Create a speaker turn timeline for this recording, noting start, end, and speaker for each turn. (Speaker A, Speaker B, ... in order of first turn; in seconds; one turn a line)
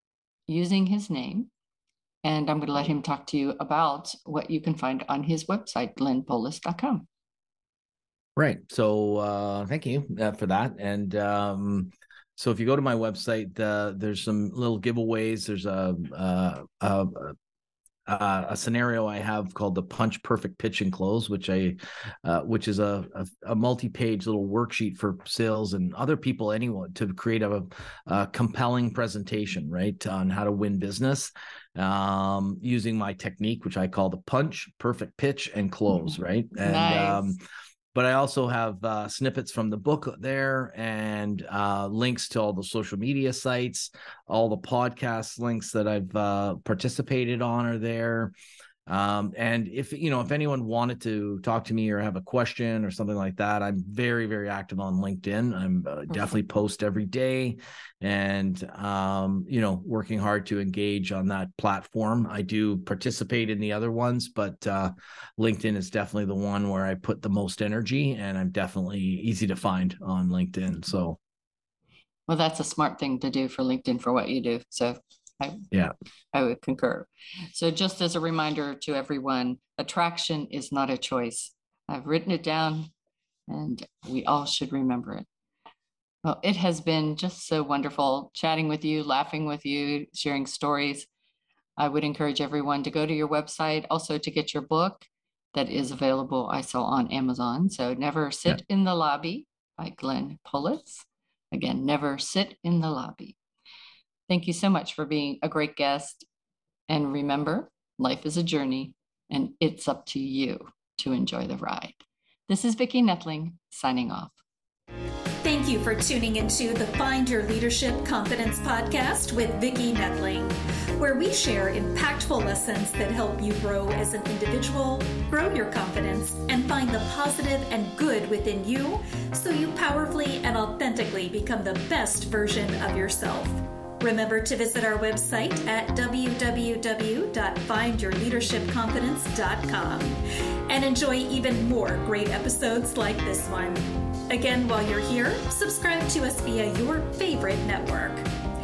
Speaker A: 0.5-1.5
Speaker A: 2.2-7.1
Speaker B: 8.4-17.4
Speaker B: 18.1-37.4
Speaker A: 36.0-37.3
Speaker B: 37.9-48.3
Speaker B: 48.9-71.2
Speaker A: 56.1-56.4
Speaker A: 72.3-75.6
Speaker A: 76.3-82.9
Speaker A: 83.5-85.3
Speaker A: 86.2-91.1
Speaker A: 91.8-103.4
Speaker A: 104.3-106.3
Speaker A: 106.9-114.4
Speaker C: 115.4-140.2
Speaker C: 140.7-148.2